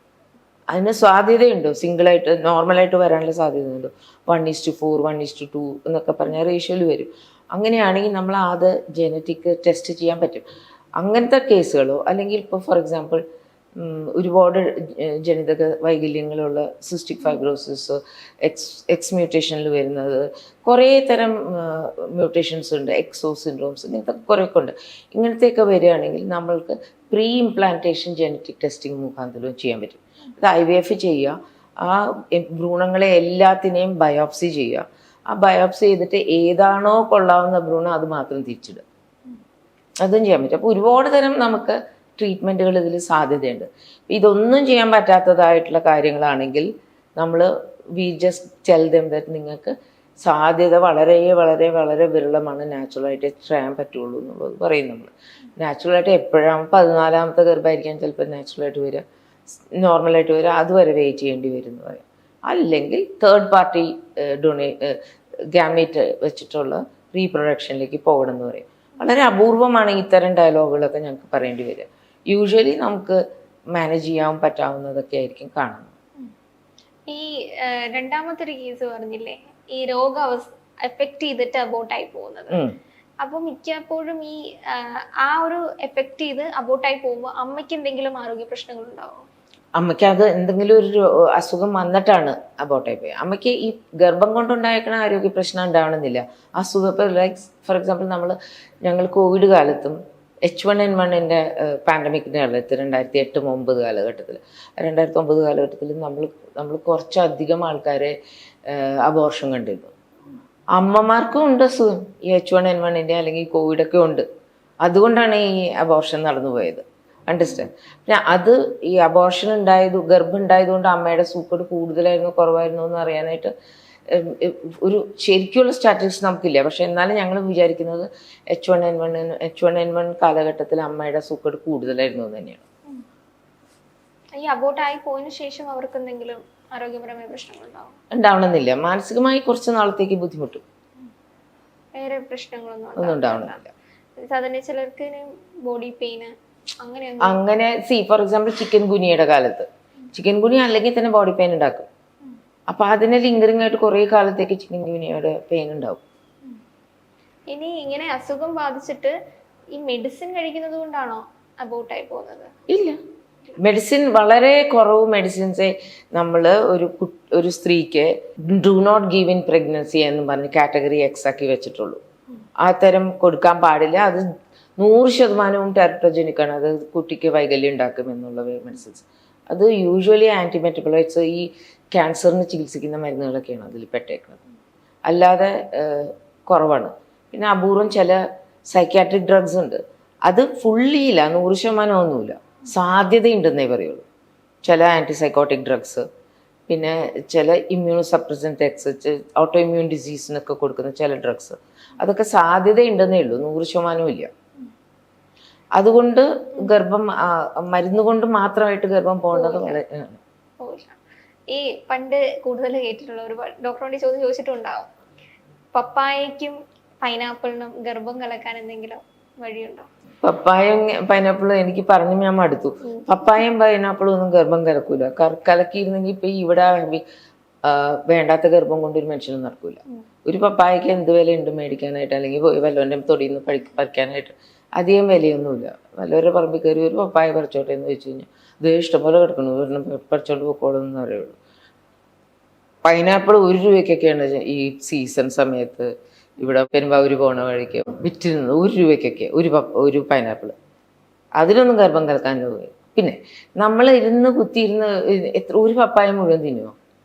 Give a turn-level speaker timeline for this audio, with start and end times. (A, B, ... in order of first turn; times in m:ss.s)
0:00.7-0:10.4 A
0:11.0-0:13.2 A
0:13.8-0:38.8 A
0:40.0-0:59.0 A
0:59.8-1:05.0 A
1:05.5-1:13.2 A
1:13.8-1:15.9 A
1:17.1-1:22.6 B
1:22.5-1:22.8 A
1:23.2-1:29.2 B
1:29.8-1:48.2 A
1:48.7-1:49.9 A
1:50.8-1:54.2 A
1:54.8-2:03.5 A
2:04.1-2:12.6 A
2:14.4-2:17.9 B
2:18.1-2:20.6 A
2:21.9-2:23.6 B
2:23.0-2:23.7 A
2:24.2-2:27.4 B
2:27.2-2:31.9 A
2:32.7-2:36.0 A
2:37.5-2:39.1 B
2:39.7-2:42.5 B
2:42.7-2:43.0 A
2:43.6-2:52.0 A
2:52.6-2:54.2 A
2:54.8-3:04.4 A
3:05.1-3:08.2 A
3:08.7-3:14.0 A
3:14.6-3:16.0 A
3:16.7-3:24.3 A
3:25.8-3:30.2 A
3:29.3-3:29.8 B
3:30.6-3:31.0 B
3:31.5-3:34.9 B
3:35.7-3:39.9 B
3:40.2-3:47.0 A
3:47.6-4:01.4 A
4:02.8-4:10.5 A
4:11.4-4:16.7 A